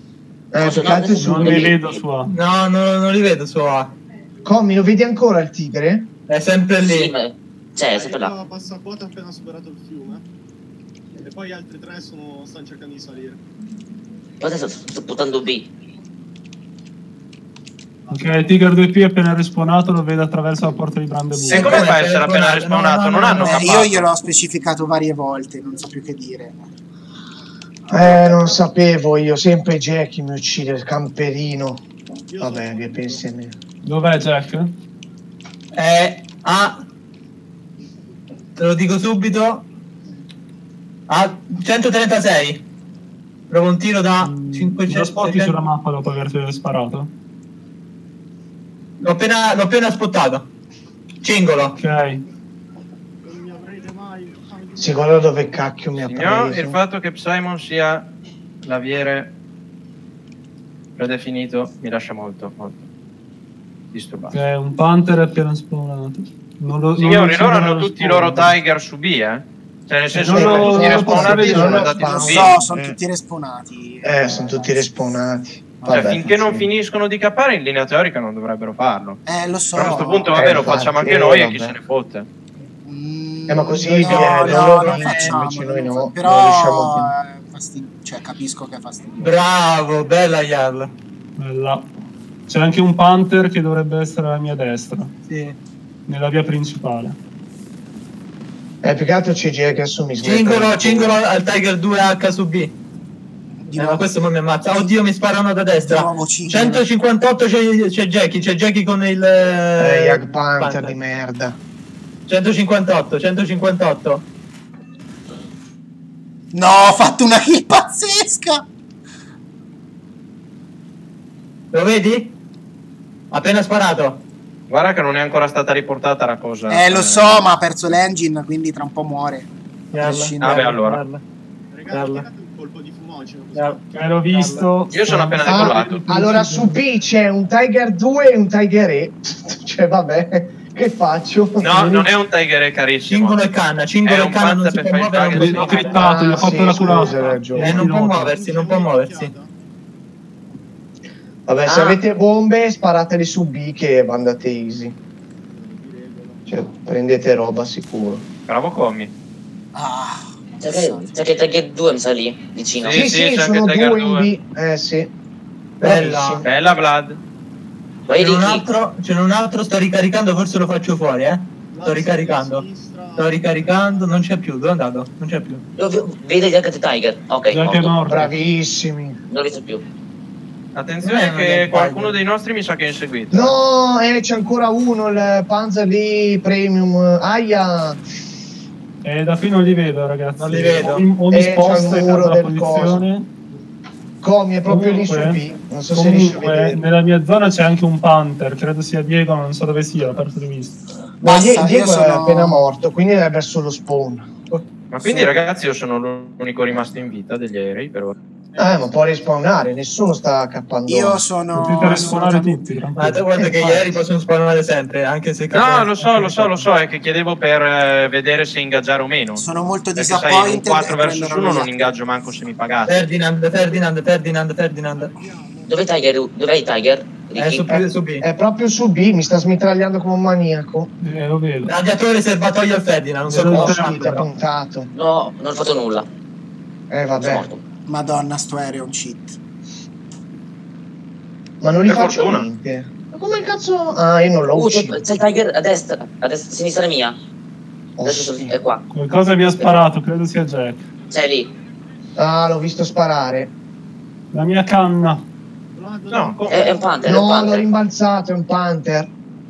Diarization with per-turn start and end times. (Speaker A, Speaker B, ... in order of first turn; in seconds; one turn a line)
Speaker A: 0.5-1.8
Speaker B: 0.6-1.9
Speaker C: 1.2-2.3
Speaker D: 2.3-3.9
Speaker A: 4.5-6.1
Speaker D: 6.3-7.1
Speaker B: 6.8-8.3
Speaker E: 7.9-10.2
Speaker E: 11.2-13.4
Speaker B: 14.4-15.7
Speaker E: 18.1-18.6
Speaker C: 18.1-21.9
Speaker D: 21.5-23.8
Speaker F: 21.5-24.1
Speaker G: 23.4-26.7
Speaker A: 27.9-31.8
Speaker E: 27.9-28.6
Speaker E: 32.3-33.2
Speaker A: 32.4-33.6
Speaker C: 33.8-34.8
Speaker D: 35.7-36.8
Speaker D: 38.6-39.7
Speaker D: 41.1-42.6
Speaker D: 43.5-45.6
Speaker C: 44.2-47.1
Speaker D: 49.0-50.5
Speaker D: 51.2-51.8
Speaker C: 51.8-52.2
Speaker E: 53.2-55.4
Speaker A: 54.8-56.8
Speaker F: 56.1-58.1
Speaker F: 58.6-59.3
Speaker F: 61.0-62.9
Speaker F: 63.9-64.3
Speaker C: 64.3-68.5
Speaker F: 67.0-72.5
Speaker C: 70.1-72.0
Speaker A: 70.2-73.0
Speaker G: 71.0-74.9
Speaker A: 74.0-76.7
Speaker F: 75.8-79.2
Speaker G: 79.3-80.6
Speaker F: 79.7-82.3
Speaker A: 80.3-81.8
Speaker G: 82.8-89.2
Speaker A: 83.5-87.1
Speaker D: 84.0-85.4
Speaker D: 89.2-90.9
Speaker C: 91.4-91.9
Speaker C: 92.5-95.1
Speaker D: 95.3-95.6
Speaker C: 96.1-97.2
Speaker A: 98.8-101.2
Speaker D: 100.2-102.7
Speaker G: 103.7-105.0
Speaker D: 103.8-110.9
Speaker G: 105.8-106.9
Speaker A: 109.8-111.6
Speaker D: 112.3-114.2
Speaker G: 116.5-118.7
Speaker D: 121.7-122.4
Speaker D: 123.3-124.2
Speaker F: 124.7-127.6
Speaker G: 126.7-130.5
Speaker D: 129.9-131.2
Speaker F: 130.4-131.0
Speaker E: 131.7-133.8
Speaker D: 131.9-132.3
Speaker C: 133.9-136.8
Speaker D: 134.3-134.6
Speaker F: 134.9-136.0
Speaker A: 135.4-142.1
Speaker F: 141.6-143.4
Speaker D: 143.1-145.9
Speaker F: 144.0-146.0
Speaker C: 145.3-148.3
Speaker A: 145.9-147.8
Speaker E: 146.9-149.5
Speaker D: 147.6-149.3
Speaker A: 151.5-155.0
Speaker B: 151.7-152.0
Speaker E: 155.4-156.5
Speaker A: 156.5-158.2
Speaker F: 158.5-159.1
Speaker G: 159.7-161.2
Speaker B: 160.6-163.0
Speaker F: 162.8-164.3
Speaker A: 162.9-165.1
Speaker D: 165.8-166.5
Speaker A: 165.8-166.5
Speaker F: 166.4-167.2
Speaker B: 168.1-168.7
Speaker D: 168.2-175.6
Speaker E: 171.7-174.3
Speaker B: 175.8-178.0
Speaker C: 177.5-178.3
Speaker A: 178.1-179.2
Speaker B: 179.3-179.8
Speaker F: 180.8-183.6
Speaker D: 181.0-182.2
Speaker A: 183.3-188.0
Speaker C: 189.0-193.3
Speaker D: 190.4-191.1
Speaker A: 191.3-193.1
Speaker A: 194.2-196.8
Speaker C: 194.7-200.8
Speaker A: 201.2-204.3
Speaker G: 201.2-202.6
Speaker F: 204.9-208.2
Speaker E: 208.5-209.0
Speaker A: 208.6-211.3
Speaker G: 210.9-212.6
Speaker C: 211.6-213.3
Speaker D: 213.0-215.9
Speaker A: 213.3-213.9
Speaker F: 215.5-219.4
Speaker C: 216.0-216.6
Speaker G: 219.4-221.7
Speaker F: 219.9-223.0
Speaker D: 222.9-225.1
Speaker E: 224.9-226.1
Speaker B: 225.7-227.8
Speaker D: 227.3-228.2
Speaker A: 227.7-230.9
Speaker C: 231.0-231.8
Speaker D: 231.7-234.0
Speaker C: 233.2-234.3
Speaker A: 233.5-234.9
Speaker B: 234.9-236.1
Speaker A: 236.9-237.5
Speaker B: 237.2-237.6
Speaker G: 237.9-239.4
Speaker A: 241.6-245.0
Speaker F: 241.9-242.4
Speaker B: 244.5-247.2
Speaker A: 248.0-248.6
Speaker B: 248.0-248.8
Speaker C: 248.9-250.9
Speaker B: 251.1-251.5
Speaker A: 252.2-253.5
Speaker C: 254.3-255.3
Speaker E: 255.7-257.0
Speaker F: 256.1-256.8
Speaker B: 256.5-257.7
Speaker A: 257.0-259.1